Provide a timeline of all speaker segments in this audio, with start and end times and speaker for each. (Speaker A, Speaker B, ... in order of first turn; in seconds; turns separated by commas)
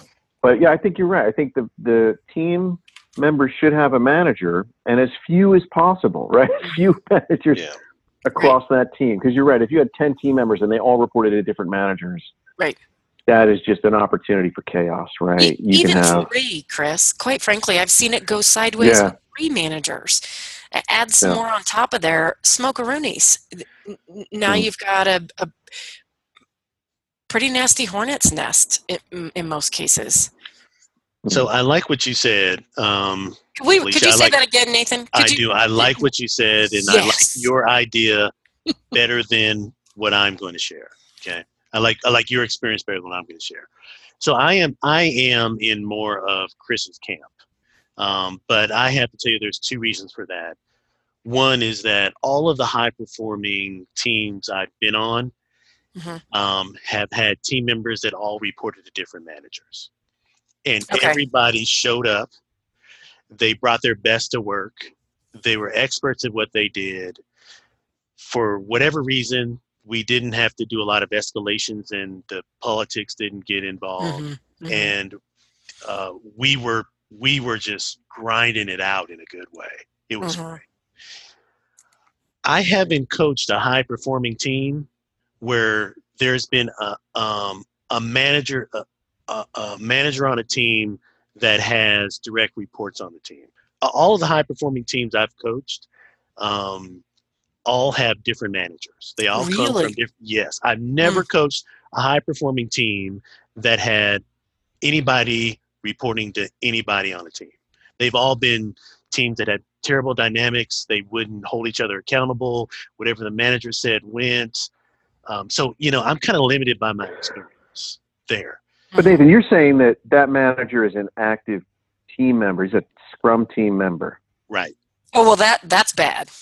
Speaker A: 0.4-7.6, Speaker A: 8.2-12.3, Speaker A: 13.3-16.3, Speaker B: 15.4-25.5, Speaker A: 18.8-19.1, Speaker B: 27.3-30.3, Speaker C: 31.3-34.4, Speaker B: 33.6-36.0, Speaker C: 35.1-38.3, Speaker B: 36.8-37.5, Speaker C: 38.9-43.7, Speaker C: 44.2-47.3, Speaker C: 48.0-50.6, Speaker C: 51.2-55.3, Speaker B: 56.0-56.2, Speaker C: 56.3-59.9, Speaker C: 60.6-62.3, Speaker B: 60.9-61.2, Speaker C: 63.3-67.2, Speaker C: 68.2-75.2, Speaker B: 74.0-74.9, Speaker C: 75.8-80.6, Speaker B: 80.2-80.6, Speaker C: 82.4-84.9, Speaker C: 85.4-97.0, Speaker C: 97.6-104.2, Speaker B: 99.3-99.9, Speaker C: 104.8-114.7, Speaker C: 115.2-118.6, Speaker B: 118.9-119.2, Speaker A: 119.0-124.2, Speaker C: 124.5-124.7, Speaker B: 125.1-126.3